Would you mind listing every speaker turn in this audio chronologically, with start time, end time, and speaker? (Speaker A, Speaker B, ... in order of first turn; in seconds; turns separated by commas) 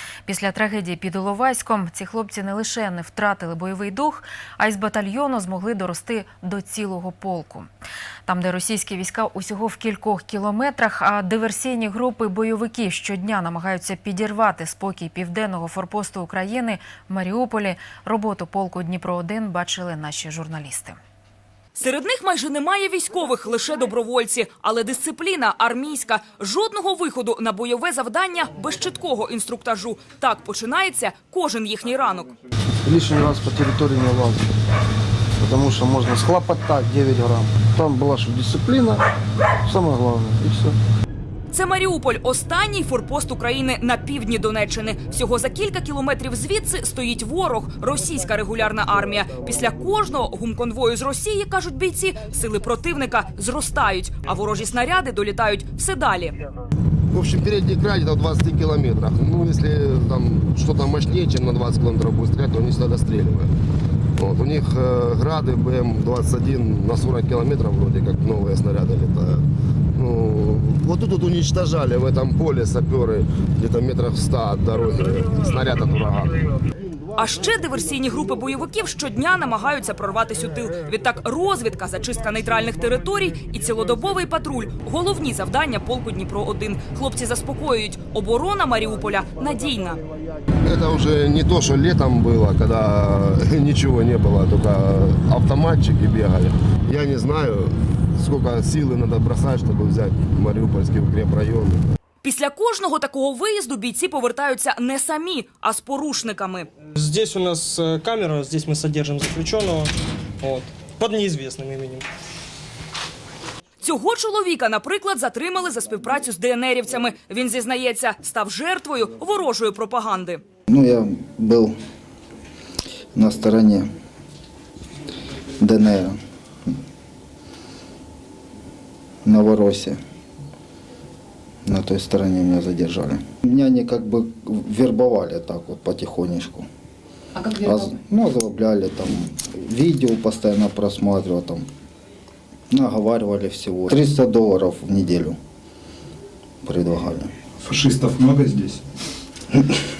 Speaker A: 0.2-7.7, Speaker A: 8.2-21.0, Speaker B: 21.8-32.3, Speaker C: 32.8-34.5, Speaker C: 35.4-39.0, Speaker C: 39.6-40.8, Speaker B: 41.5-56.4, Speaker D: 57.1-63.5, Speaker D: 64.2-69.4, Speaker D: 69.9-76.6, Speaker B: 77.2-90.0, Speaker D: 90.6-101.8, Speaker B: 102.2-106.7, Speaker E: 107.0-109.9, Speaker E: 110.4-112.0, Speaker B: 113.8-120.4, Speaker F: 120.7-121.7, Speaker F: 123.1-123.9, Speaker F: 125.6-126.2, Speaker F: 129.2-130.0, Speaker F: 131.7-136.7, Speaker F: 137.5-141.6, Speaker F: 142.7-145.3, Speaker F: 146.6-147.3